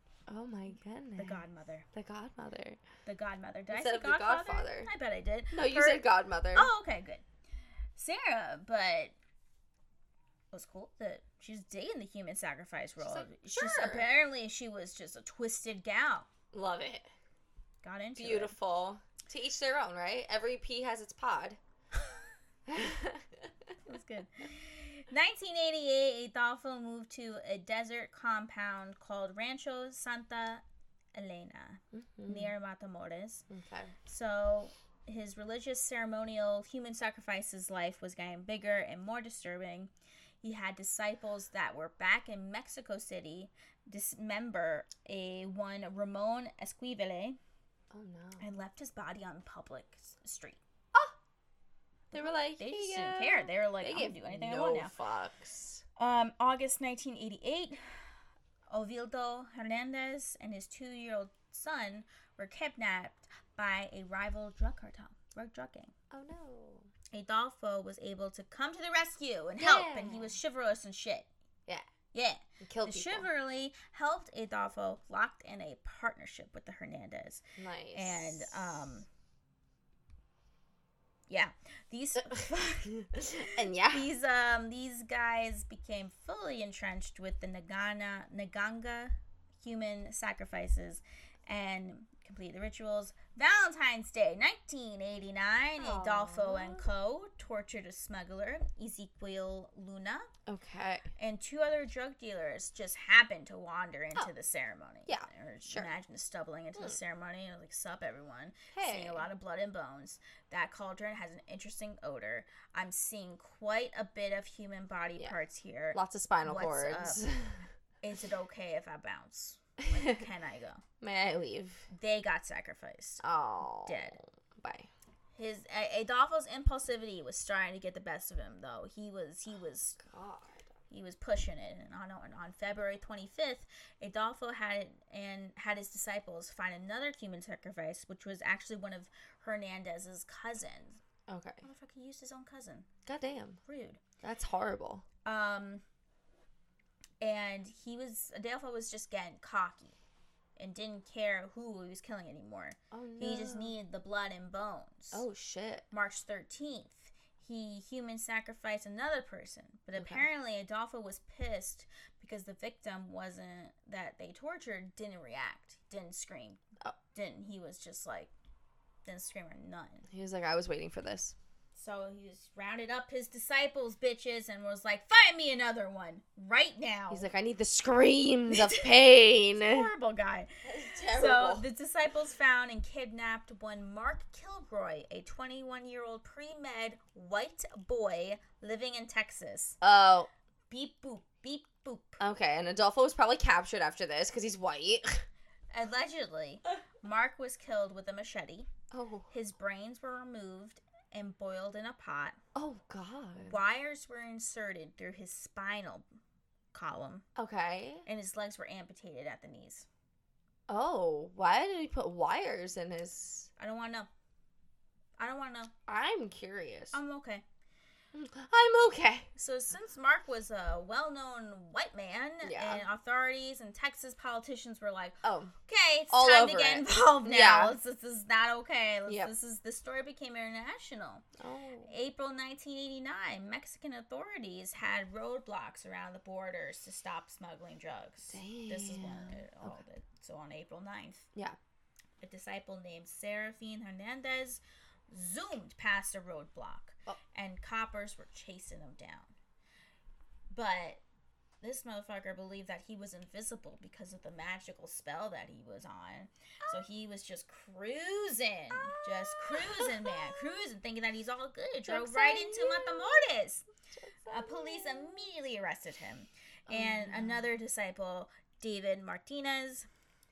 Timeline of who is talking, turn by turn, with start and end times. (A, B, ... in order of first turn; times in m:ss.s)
0:00.3-0:02.8 A
0:01.2-0:01.9 B
0:03.0-0:07.2 B
0:03.7-0:04.9 A
0:05.5-0:06.7 A
0:08.0-0:09.1 B
0:10.5-0:16.3 B
0:13.0-0:14.1 A
0:16.5-0:17.1 A
0:17.8-0:18.6 B
0:18.2-0:21.6 A
0:22.7-0:23.5 A
0:23.8-0:30.6 B
0:31.1-0:33.4 B
0:31.9-0:32.5 A
0:33.5-0:33.9 A
0:34.0-0:39.9 B
0:40.4-0:47.4 B
0:47.9-0:48.4 A
0:48.4-0:50.6 B
0:52.1-0:54.9 B
0:52.1-0:55.8 A
0:56.0-0:58.0 B
0:58.7-1:05.9 B
1:06.1-1:06.9 A
1:07.1-1:11.3 B
1:09.6-1:10.4 A
1:12.1-1:17.4 B
1:12.6-1:13.3 A
1:17.6-1:18.8 A
1:17.9-1:19.0 B
1:21.3-1:40.3 B
1:22.3-1:24.1 A
1:35.8-1:36.9 A
1:40.5-1:41.1 A
1:41.2-1:57.2 B
1:45.1-1:45.9 A
1:48.7-1:49.3 A
1:55.9-1:57.6 A
1:58.0-2:00.8 B
1:59.8-2:00.2 A
2:01.0-2:01.9 A
2:01.9-2:03.2 B
2:03.2-2:04.9 A
2:03.8-2:04.2 B
2:05.4-2:10.0 B
2:10.0-2:10.6 A
2:10.9-2:21.0 B
2:21.3-2:21.6 A
2:21.6-2:22.9 B
2:23.0-2:23.6 A
2:23.7-2:24.0 B
2:24.2-2:25.0 A
2:25.2-2:25.8 B
2:27.2-2:30.0 B
2:30.6-2:35.2 B
2:32.9-2:33.8 A
2:35.1-2:35.9 A
2:35.9-2:46.6 B
2:40.0-2:40.3 A
2:47.1-2:48.3 B
2:49.0-2:50.0 B
2:50.1-2:51.3 A
2:51.8-2:57.3 B
2:57.1-2:59.9 A
2:58.5-2:58.9 B
2:59.5-3:09.8 B
3:00.6-3:01.7 A
3:09.8-3:10.3 A
3:10.7-3:12.2 B
3:12.2-3:15.3 A
3:15.7-3:18.7 B
3:18.9-3:19.3 A
3:19.3-3:22.4 B
3:22.6-3:23.6 A
3:23.4-3:26.0 B
3:26.7-3:27.2 B
3:27.4-3:28.0 A
3:28.0-3:29.9 B
3:30.7-3:33.5 A
3:33.6-3:34.1 B
3:35.2-3:35.7 B
3:35.9-3:37.0 A
3:36.9-3:37.4 B
3:38.1-3:39.3 A
3:39.4-3:51.2 B
3:42.4-3:42.9 A
3:45.2-3:45.5 A
3:46.1-3:47.7 A
3:49.1-3:49.3 A
3:51.4-3:51.9 A
3:51.9-4:01.3 B
3:58.3-3:59.8 A
4:02.2-4:09.3 B
4:10.5-4:11.0 B
4:11.6-4:23.7 B
4:18.7-4:20.6 A
4:21.8-4:23.3 A
4:23.9-4:25.1 A
4:24.3-4:29.9 B
4:26.7-4:27.4 A